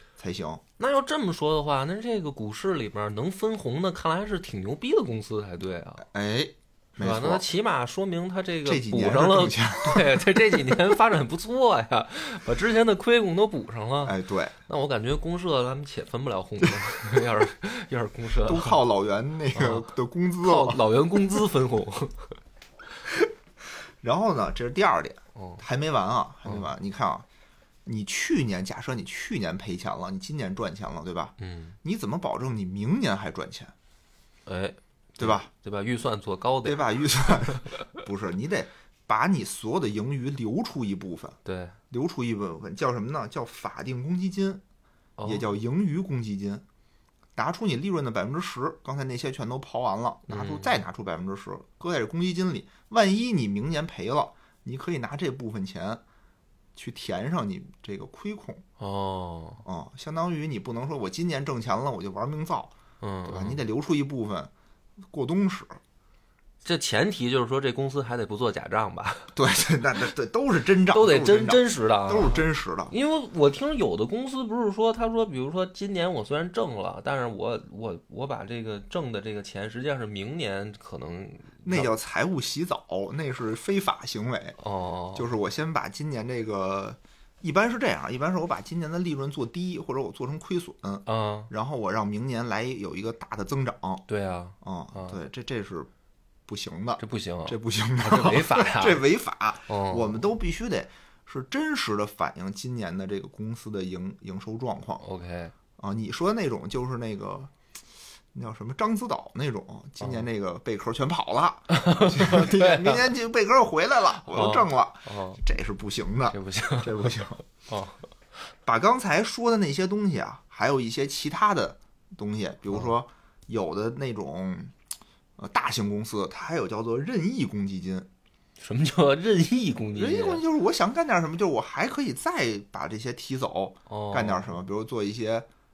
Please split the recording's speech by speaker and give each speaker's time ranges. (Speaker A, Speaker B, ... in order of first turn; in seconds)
Speaker A: 0.2-0.6, 6.0-7.5, 8.7-10.8, 14.0-14.5, 16.6-17.2, 18.4-21.4, 24.0-27.3, 27.9-33.7, 35.2-35.5, 36.6-41.4, 41.9-44.6, 45.2-46.6, 47.4-56.0, 56.8-58.6, 59.6-62.7, 63.3-64.5, 65.1-65.8, 69.3-72.9, 81.7-84.6, 85.2-94.0, 94.6-95.9, 96.5-105.0, 105.8-107.5, 108.3-117.4, 118.7-124.7, 125.4-128.1, 130.0-135.5
Speaker B: 0.8-6.1, 7.0-14.2, 14.7-18.8, 19.6-19.9, 20.4-22.3, 25.4-25.6, 31.4-31.8, 34.5-36.9, 41.5-41.8, 45.2-45.5, 50.3-50.8, 58.8-59.6, 63.0-63.6, 66.6-69.3, 70.9-81.9, 84.6-85.3, 91.1-91.5, 94.1-95.2, 97.0-99.0, 99.7-100.2, 105.0-105.5, 110.0-110.3, 111.7-113.0, 114.2-115.4, 116.3-118.0, 128.6-130.4, 133.9-134.6